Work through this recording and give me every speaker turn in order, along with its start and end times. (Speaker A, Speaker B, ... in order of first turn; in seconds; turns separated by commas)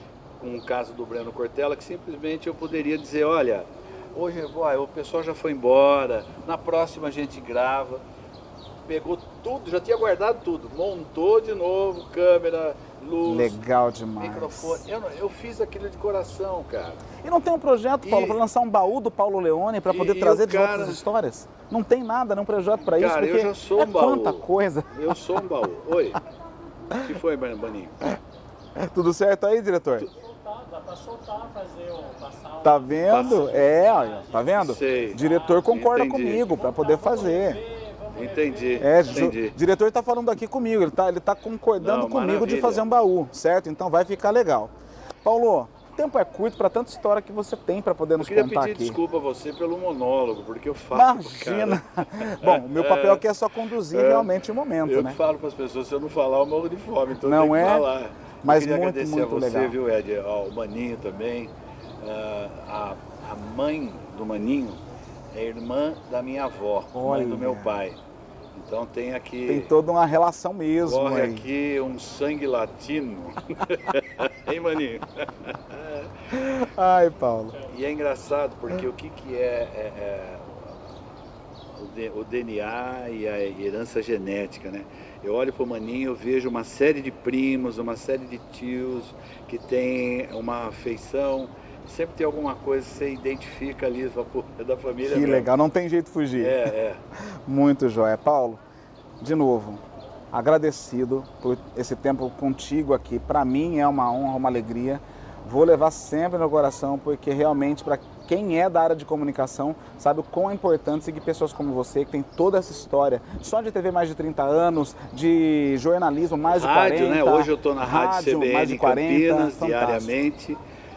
Speaker A: 0.4-8.0, Speaker A: 8.8-13.6, Speaker B: 13.2-14.8, Speaker A: 14.2-17.0, Speaker B: 17.2-25.2, Speaker A: 18.0-18.4, Speaker A: 19.9-21.0, Speaker A: 22.9-26.2, Speaker A: 26.9-28.1, Speaker B: 28.8-30.1, Speaker C: 30.2-34.5, Speaker B: 32.6-37.6, Speaker A: 33.0-33.6, Speaker A: 34.5-36.5, Speaker C: 36.4-39.0, Speaker A: 38.1-39.6, Speaker B: 38.8-44.7, Speaker A: 41.8-42.8, Speaker B: 45.2-49.0, Speaker A: 48.2-53.2, Speaker B: 50.9-55.2, Speaker A: 53.9-54.3, Speaker A: 54.8-64.8, Speaker B: 57.2-57.9, Speaker B: 58.4-59.7, Speaker A: 65.3-68.0, Speaker B: 66.9-67.8, Speaker A: 68.5-69.7, Speaker B: 69.5-71.4, Speaker A: 70.8-76.1, Speaker B: 76.3-77.6, Speaker A: 77.7-80.7, Speaker A: 81.7-95.5, Speaker B: 95.0-96.7, Speaker A: 96.4-97.0, Speaker B: 97.4-98.6, Speaker B: 99.2-120.1, Speaker A: 116.5-120.6